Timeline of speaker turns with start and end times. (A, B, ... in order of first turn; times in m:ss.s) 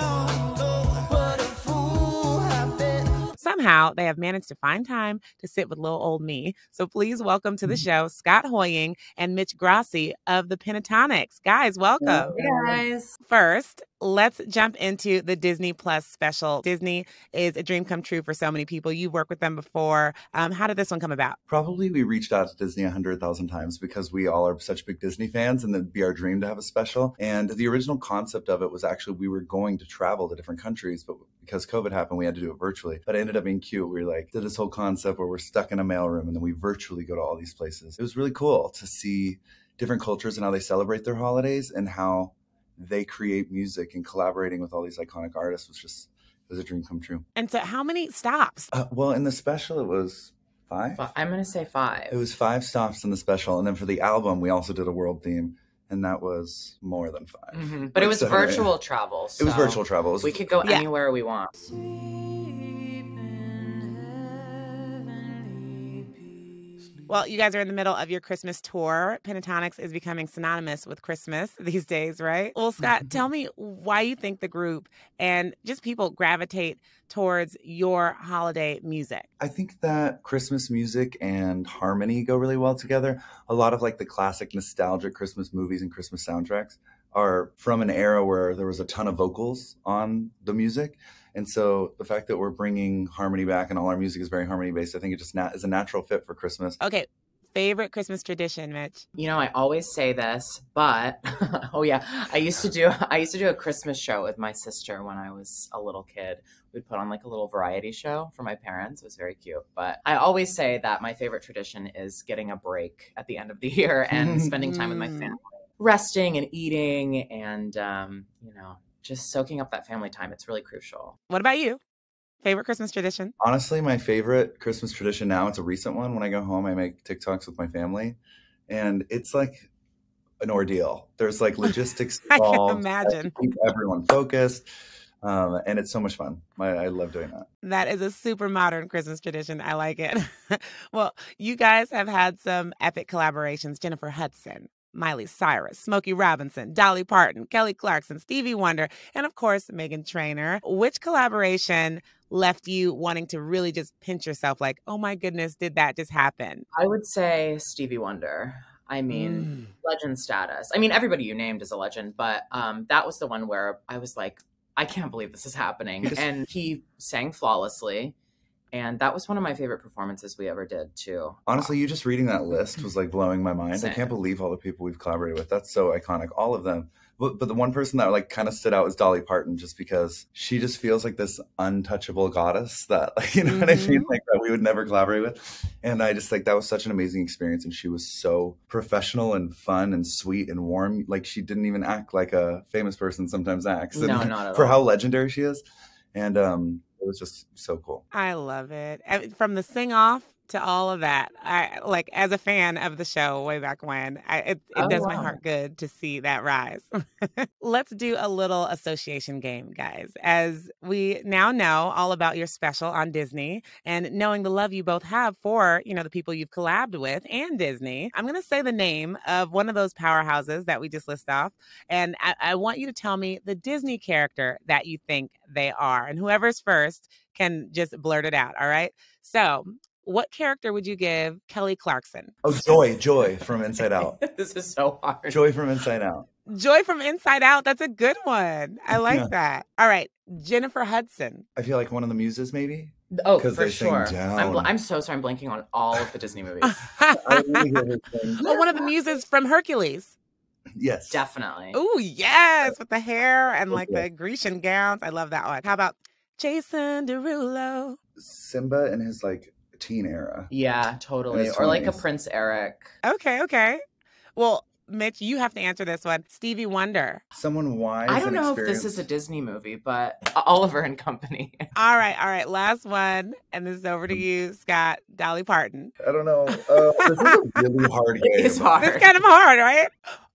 0:01.2-0:02.6 A
0:03.4-0:12.3 B
0:12.0-0:12.8 C
0:12.3-0:13.2 A
0:13.2-0:21.4 B
0:21.5-0:47.2 C
0:47.4-0:48.7 B
0:48.7-0:51.0 C
0:50.9-0:52.2 A
0:52.1-0:58.7 C
0:57.5-1:06.4 A
0:59.4-1:00.4 C
1:07.1-1:19.3 B
1:19.4-1:36.8 C
1:36.8-1:39.0 B
1:39.2-2:01.2 A
1:54.1-1:54.5 C
1:54.6-1:55.3 B
2:01.3-2:01.8 B
2:02.4-2:03.3 B
2:03.4-2:09.7 C
2:10.4-2:14.6 C
2:12.3-2:13.3 B
2:15.2-2:17.5 C
2:17.6-2:36.6 B
2:36.7-2:48.1 A
2:39.1-2:39.5 B
2:46.0-2:46.3 C
2:48.7-2:51.7 A
2:51.5-3:15.6 C
2:53.7-2:54.2 A
3:03.4-3:04.1 B
3:13.9-3:14.8 A
3:16.1-3:18.0 C
3:18.1-3:52.3 B
3:24.7-3:25.4 A
3:52.4-3:54.2 C
3:53.2-3:55.5 A
3:55.3-3:56.3 C
3:56.5-4:01.4 B
3:58.9-3:59.3 C
4:01.6-4:04.7 C
4:03.2-4:06.8 A
4:06.6-4:07.6 B
4:07.1-4:08.4 C
4:08.4-4:10.1 B
4:08.4-4:08.9 A
4:10.8-4:11.2 C
4:11.1-4:11.8 A
4:11.7-4:18.0 B
4:13.7-4:14.0 C
4:18.2-4:20.5 C
4:20.5-4:22.9 A
4:21.3-4:22.0 C
4:23.0-4:23.8 B
4:24.4-4:27.2 B
4:27.3-4:29.0 C
4:28.1-4:31.7 A
4:31.7-4:35.9 B
4:36.0-4:38.8 C
4:37.0-4:37.3 B
4:38.2-4:39.2 A
4:38.8-4:39.9 B